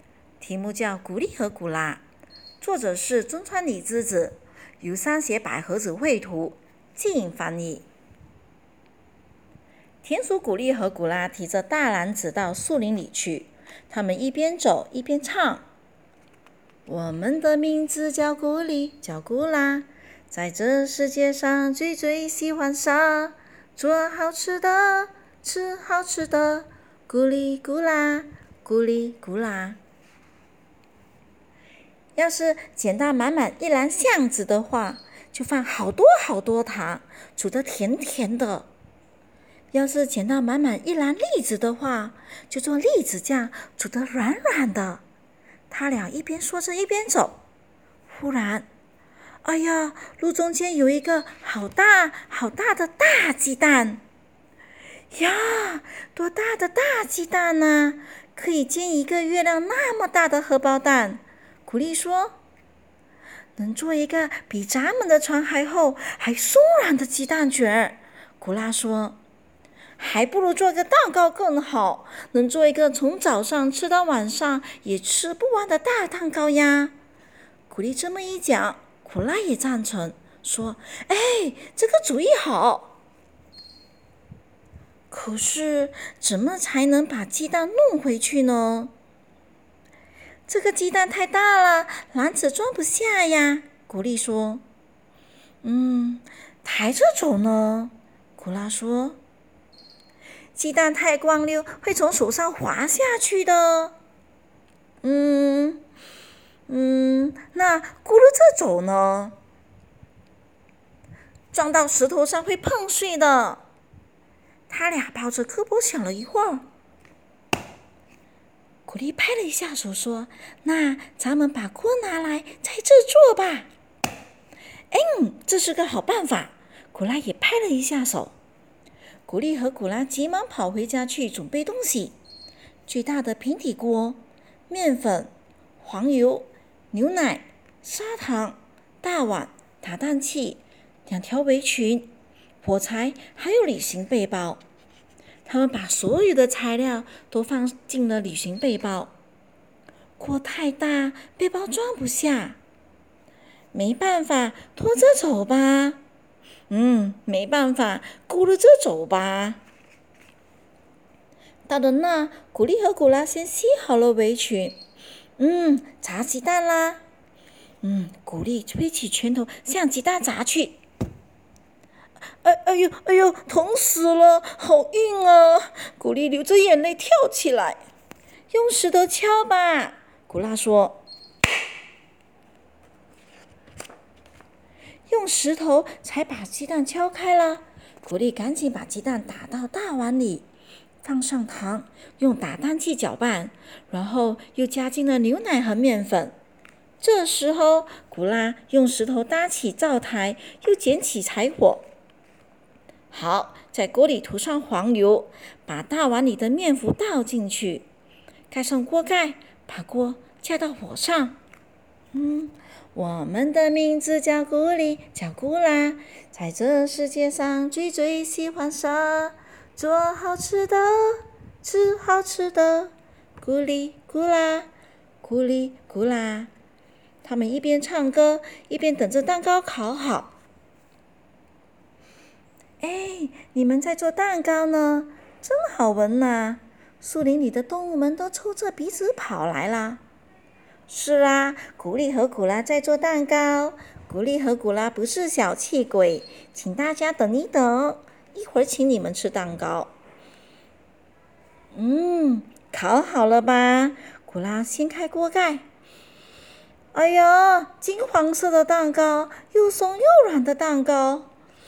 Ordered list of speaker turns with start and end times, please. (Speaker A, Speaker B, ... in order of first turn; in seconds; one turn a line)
Speaker A: 0.4-2.0
Speaker A: 2.6-7.9
Speaker A: 10.0-15.7
Speaker A: 16.9-29.8
Speaker A: 32.1-38.7
Speaker A: 39.7-45.0
Speaker A: 45.7-47.4
Speaker A: 48.1-48.7
Speaker A: 49.4-54.0
Speaker A: 55.1-62.4
Speaker A: 63.6-69.2
Speaker A: 70.0-76.9
Speaker A: 77.7-82.9
Speaker A: 85.1-88.9
Speaker A: 90.5-94.6
Speaker A: 95.6-99.2
Speaker A: 100.5-104.0
Speaker A: 105.0-105.8
Speaker A: 106.7-109.4
Speaker A: 111.5-113.6
Speaker A: 114.7-116.7
Speaker A: 118.9-123.7
Speaker A: 124.9-128.3
Speaker A: 129.3-132.2
Speaker A: 132.9-142.1
Speaker A: 142.6-144.6
Speaker A: 145.4-149.1
Speaker A: 150.2-152.6
Speaker A: 153.7-156.0
Speaker A: 156.7-159.6
Speaker A: 161.7-164.8
Speaker A: 165.4-167.0
Speaker A: 167.8-170.8
Speaker A: 172.4-177.8
Speaker A: 178.5-181.0
Speaker A: 185.1-190.4
Speaker A: 191.0-196.4
Speaker A: 197.0-201.9
Speaker A: 203.1-207.9
Speaker A: 208.5-211.4
Speaker A: 212.1-224.7
Speaker A: 225.2-226.5
Speaker A: 227.2-230.3
Speaker A: 232.8-240.0
Speaker A: 240.9-249.9
Speaker A: 251.7-255.6
Speaker A: 256.9-261.3